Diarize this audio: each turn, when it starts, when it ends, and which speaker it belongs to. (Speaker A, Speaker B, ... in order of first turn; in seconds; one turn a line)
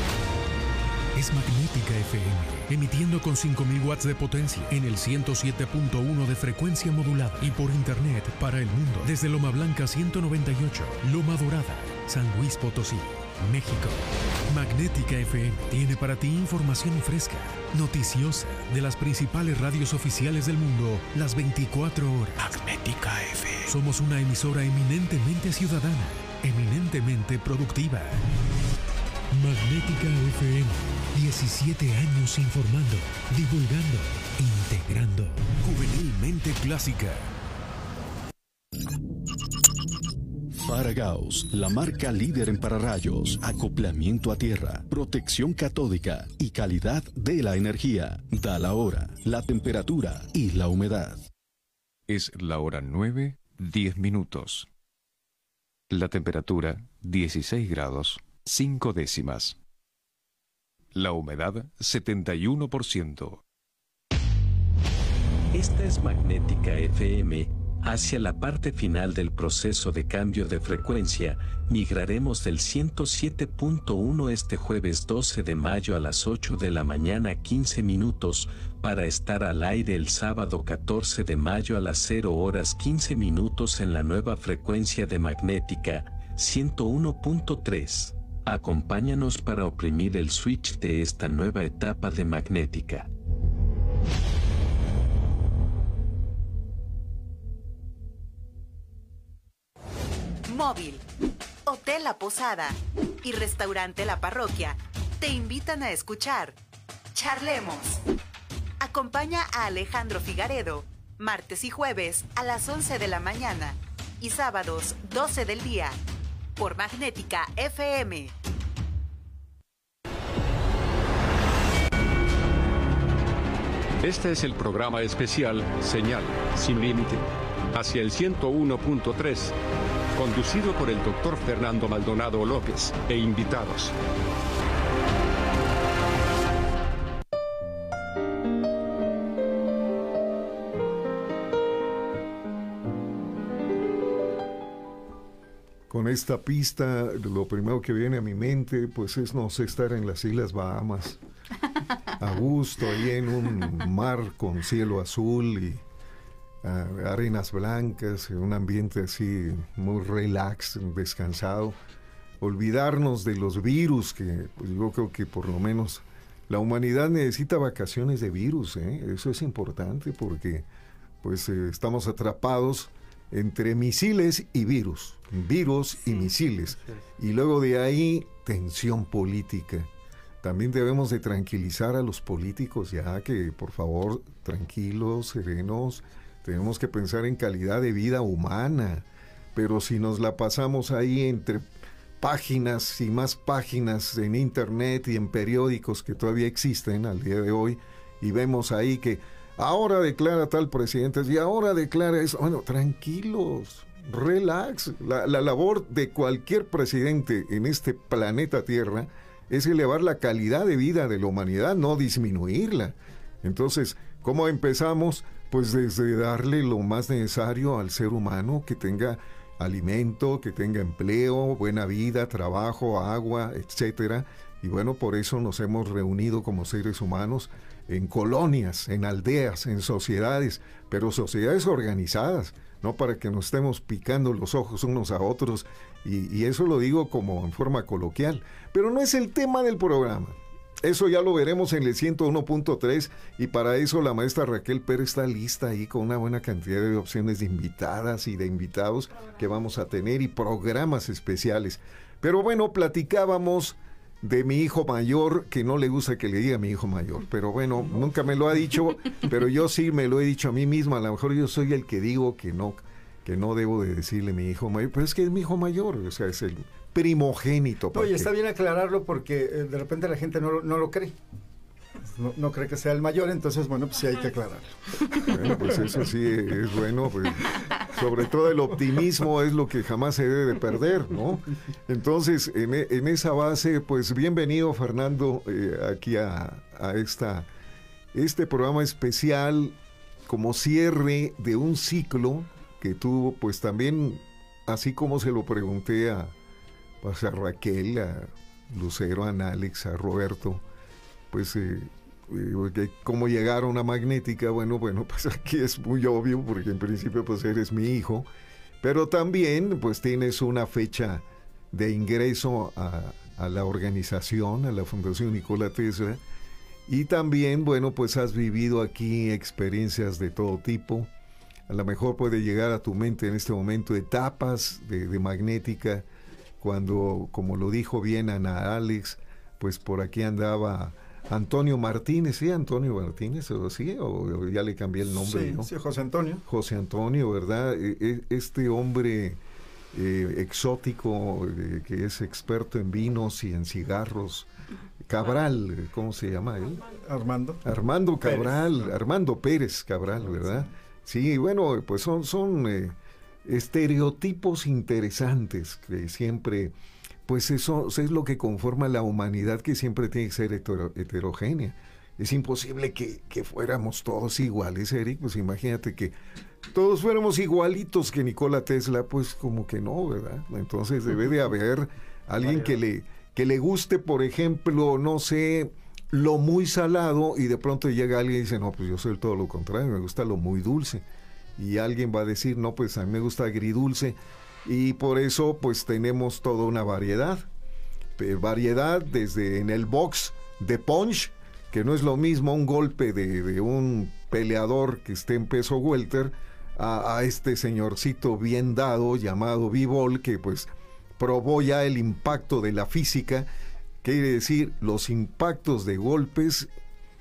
Speaker A: 1.1-22.6
Speaker B: 22.6-23.3
Speaker A: 23.6-28.2
Speaker A: 29.3-37.3
Speaker B: 40.5-51.3
Speaker C: 52.1-54.7
Speaker C: 55.9-59.6
Speaker C: 60.9-63.4
Speaker D: 65.5-93.1
Speaker E: 100.5-101.0
Speaker E: 101.7-106.6
Speaker E: 107.1-108.0
Speaker E: 108.8-116.0
Speaker E: 116.6-118.3
Speaker F: 124.0-129.6
Speaker F: 130.1-133.9
Speaker G: 145.9-151.2
Speaker G: 152.2-155.8
Speaker G: 156.6-161.8
Speaker G: 162.4-170.7
Speaker G: 171.2-179.9
Speaker G: 180.4-191.7
Speaker G: 192.2-268.3
Speaker H: 267.9-271.1
Speaker H: 272.1-276.1
Speaker G: 275.3-287.5
Speaker G: 288.1-296.3
Speaker G: 297.0-300.6
Speaker G: 301.3-308.3
Speaker G: 308.8-316.2
Speaker G: 316.9-321.1
Speaker G: 321.7-326.0
Speaker G: 326.6-335.7
Speaker H: 335.1-336.4
Speaker G: 336.4-339.4
Speaker G: 339.9-344.5
Speaker G: 345.0-346.9
Speaker H: 346.9-347.6
Speaker G: 347.6-356.7
Speaker H: 348.2-349.0
Speaker H: 350.1-350.7
Speaker G: 357.3-381.0
Speaker G: 381.6-387.5
Speaker G: 388.2-403.5
Speaker G: 404.0-406.7